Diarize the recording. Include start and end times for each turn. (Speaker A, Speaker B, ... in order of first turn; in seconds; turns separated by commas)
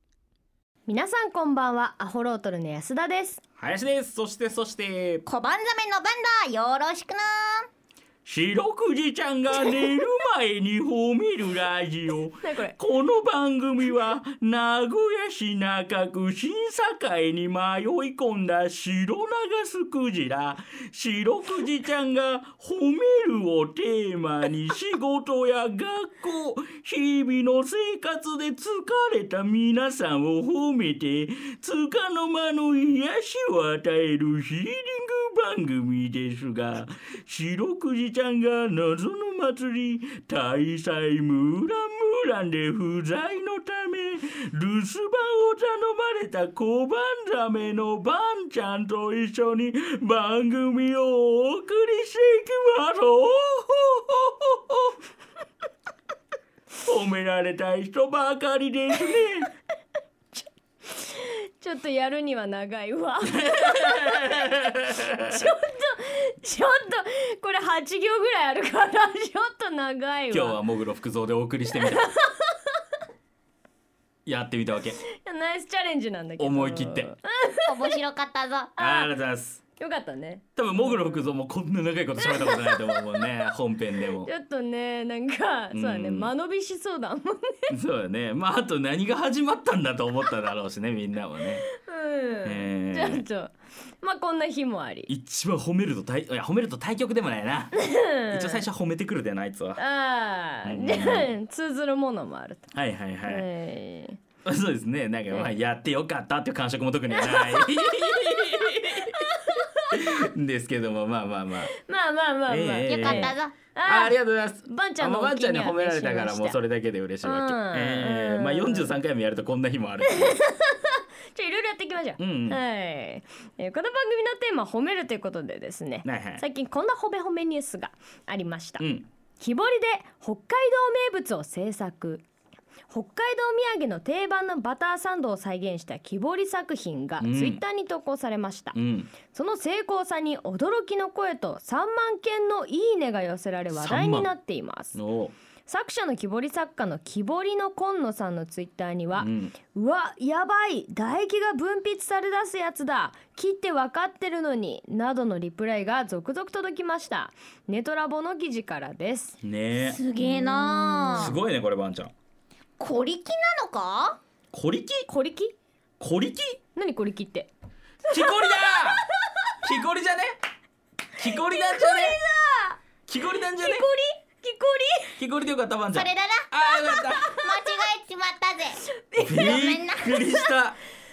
Speaker A: 0.9-3.4, Speaker B: 3.6-5.2, Speaker C: 5.3-7.7, Speaker B: 8.2-55.0, Speaker A: 12.4-12.8, Speaker B: 56.8-59.5, Speaker A: 60.9-70.6, Speaker B: 63.5-65.4, Speaker B: 70.3-72.1, Speaker A: 71.7-72.6, Speaker B: 74.2-75.0, Speaker A: 75.2-77.8, Speaker B: 76.4-77.1, Speaker C: 77.6-78.7, Speaker A: 78.8-79.1, Speaker B: 78.8-79.6, Speaker A: 79.8-81.3, Speaker B: 80.5-84.3, Speaker A: 82.2-83.3, Speaker A: 84.2-87.7, Speaker B: 85.7-86.3, Speaker B: 87.7-91.7, Speaker A: 91.7-95.1, Speaker B: 92.4-93.2, Speaker B: 95.1-99.8, Speaker A: 97.7-98.6, Speaker A: 99.8-102.7, Speaker B: 100.6-101.3, Speaker B: 102.7-103.5, Speaker A: 103.2-104.2, Speaker B: 104.4-109.3, Speaker A: 107.1-110.0, Speaker B: 109.9-111.7, Speaker A: 111.8-116.6, Speaker B: 112.5-120.4, Speaker C: 112.8-113.5, Speaker A: 117.2-119.0, Speaker A: 120.0-128.8, Speaker B: 122.2-122.6, Speaker B: 126.0-126.4, Speaker B: 128.8-129.1, Speaker A: 129.4-132.2, Speaker A: 132.9-145.0, Speaker B: 137.2-137.6, Speaker B: 138.8-139.1, Speaker B: 143.7-144.3, Speaker B: 144.9-145.3, Speaker A: 145.7-159.4, Speaker B: 149.2-149.6, Speaker B: 159.4-160.0, Speaker C: 159.8-161.4, Speaker A: 160.2-161.4, Speaker B: 161.2-162.1, Speaker C: 162.8-164.2, Speaker B: 164.5-165.1, Speaker A: 165.1-165.5, Speaker B: 166.0-166.6, Speaker A: 166.8-167.5, Speaker B: 168.1-169.0, Speaker A: 168.2-168.9, Speaker B: 169.6-170.4, Speaker B: 171.2-172.2, Speaker A: 171.2-172.8, Speaker B: 173.1-173.9, Speaker A: 173.5-175.2, Speaker B: 175.2-177.3, Speaker C: 175.9-178.8, Speaker A: 177.1-177.4, Speaker A: 179.0-179.5, Speaker B: 179.2-180.8, Speaker C: 179.4-180.2